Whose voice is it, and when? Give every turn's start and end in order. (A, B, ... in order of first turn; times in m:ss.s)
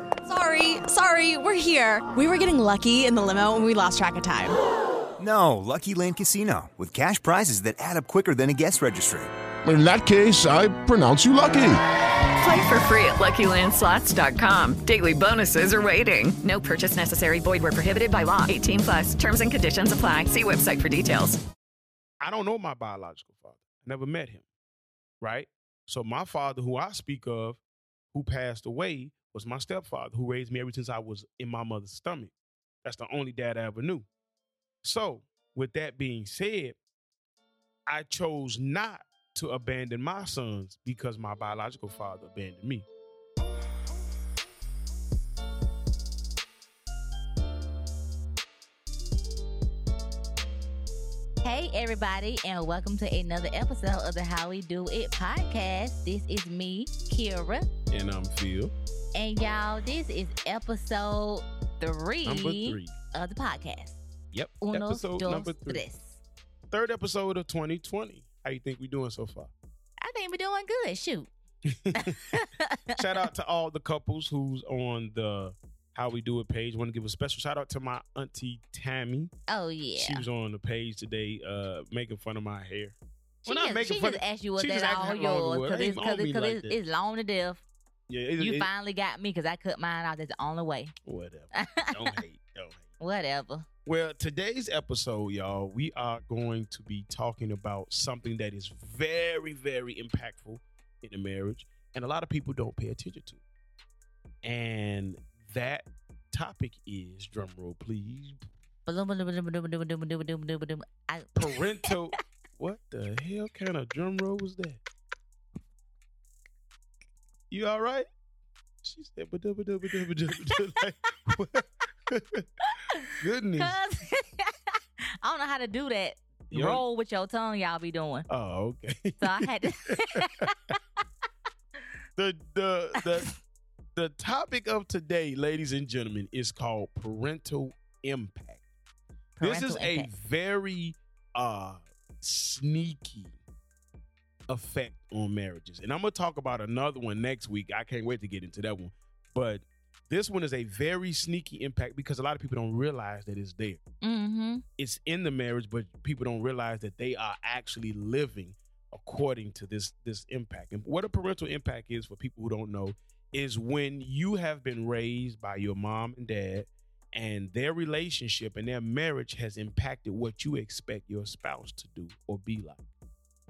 0:00.2-0:04.5 A
0:05.2-0:09.3 B
0:09.6-0:11.8 C
0:12.4-0:21.4 D
0:22.2-0:24.4 E
0:25.2-0:27.6 E
0:28.1-0:32.3 E
0:32.8-0:34.1 E
0:34.8-0:36.8 E
0:37.9-0:42.8 E
0:51.4-0:57.7 F
0:57.9-0:58.7 E
0:59.1-1:04.0 F
1:02.2-1:02.9 E
1:04.3-1:05.8 E
1:04.6-1:06.2 F
1:06.7-1:09.5 E
1:10.0-1:11.3 F
1:11.7-1:12.2 E
1:11.9-1:13.0 F
1:12.9-1:19.3 E
1:19.5-1:20.2 F
1:20.0-1:22.9 E
1:23.4-1:26.8 E
1:23.4-1:27.6 F
1:28.1-1:28.7 E
1:28.4-1:30.9 F
1:31.0-1:32.8 E
1:31.5-1:31.9 F
1:33.0-1:33.7 F
1:33.8-1:43.4 E
1:44.4-1:48.4 E
1:48.9-1:51.9 F
1:51.3-1:54.8 E
1:57.5-1:58.1 E
1:58.8-2:02.4 E
2:02.7-2:04.7 F
2:03.2-2:03.8 E
2:05.2-2:08.3 F
2:06.5-2:06.8 E
2:08.3-2:10.5 E
2:09.2-2:10.8 F
2:12.2-2:13.3 E
2:13.9-2:18.6 E
2:19.4-2:20.1 F
2:19.4-2:23.4 E
2:24.5-2:33.8 E
2:34.0-2:34.6 F
2:34.8-2:52.8 E